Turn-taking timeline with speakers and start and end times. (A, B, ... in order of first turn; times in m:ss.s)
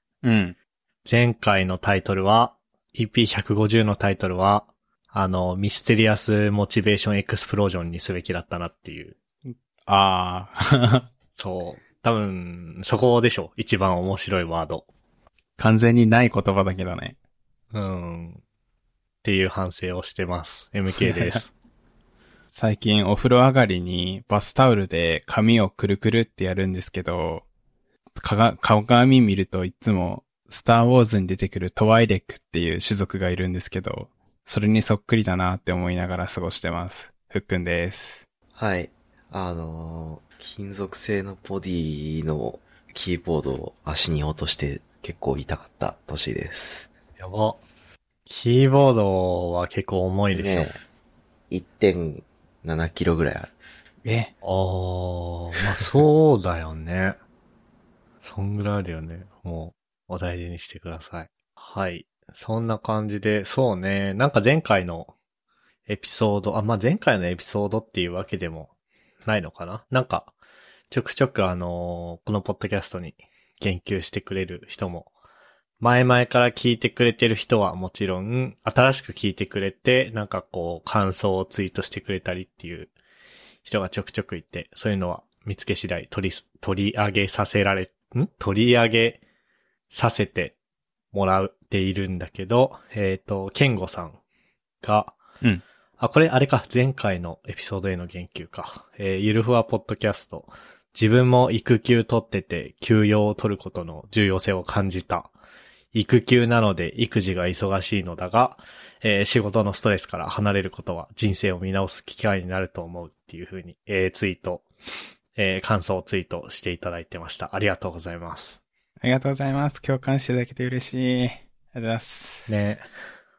0:00.2-0:00.6 A
0:01.0-0:09.2 B
0:09.5-0:11.1 A
0:11.4-0:14.8 B
0:15.6-0:17.2 A
0:17.7-0:18.4 B
0:19.2-0:21.5 B
0:21.1-0:21.4 A
0:22.5-0:27.4 A
0:28.2-0:38.2 A
0:38.6-0:46.9 C
0:47.2-0:47.6 B
0:48.2-0:50.7 B
0:50.3-0:50.8 C
0:51.5-0:53.5 C
0:54.0-0:54.3 A
0:54.4-0:57.2 B
0:58.2-1:05.1 B
1:05.9-1:08.7 B
1:09.2-1:10.3 B
1:10.9-1:15.1 B
1:15.8-1:22.9 B
1:23.6-1:29.2 B
1:29.9-1:30.5 B
1:31.1-1:34.2 B
1:34.8-1:35.2 B
1:36.0-1:45.3 B
1:45.9-1:54.6 B
1:55.4-1:58.6 B
1:59.0-2:02.5 A
2:02.5-2:02.9 B